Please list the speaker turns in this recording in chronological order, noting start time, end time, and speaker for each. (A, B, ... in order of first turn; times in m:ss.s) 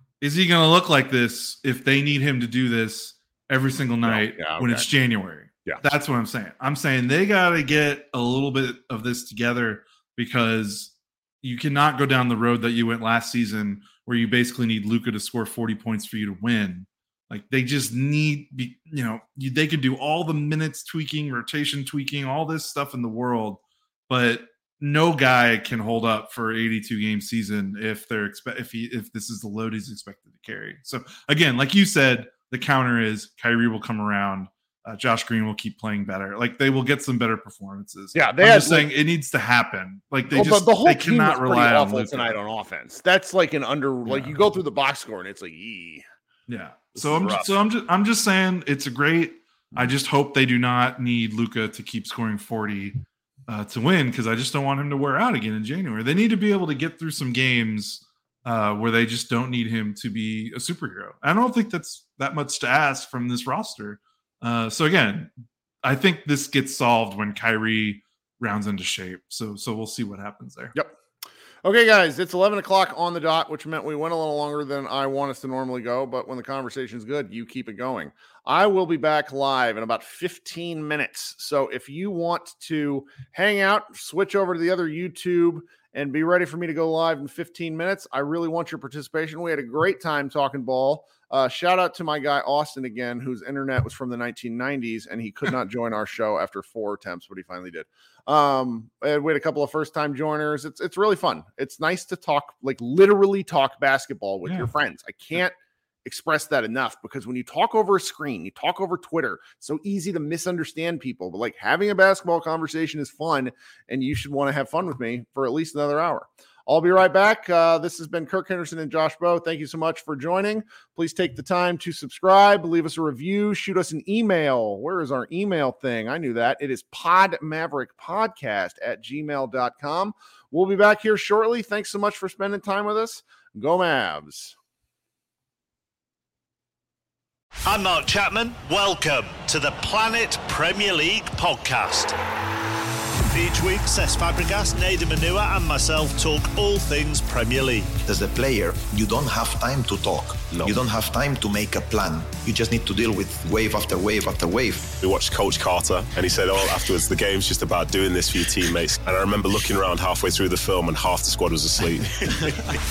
0:00.2-0:42.4 A
0:04.0-0:04.9 B
0:38.2-0:38.9 B
0:40.3-0:46.0 B
0:44.1-0:44.4 A
0:46.5-1:05.3 A
0:47.0-0:47.5 B
1:05.8-1:10.7 A
1:11.6-2:14.6 B
1:44.4-1:44.7 A
2:17.6-2:22.2 C
2:23.3-2:27.9 C
2:28.0-2:34.9 D
2:30.5-2:30.8 E
2:35.0-2:42.8 E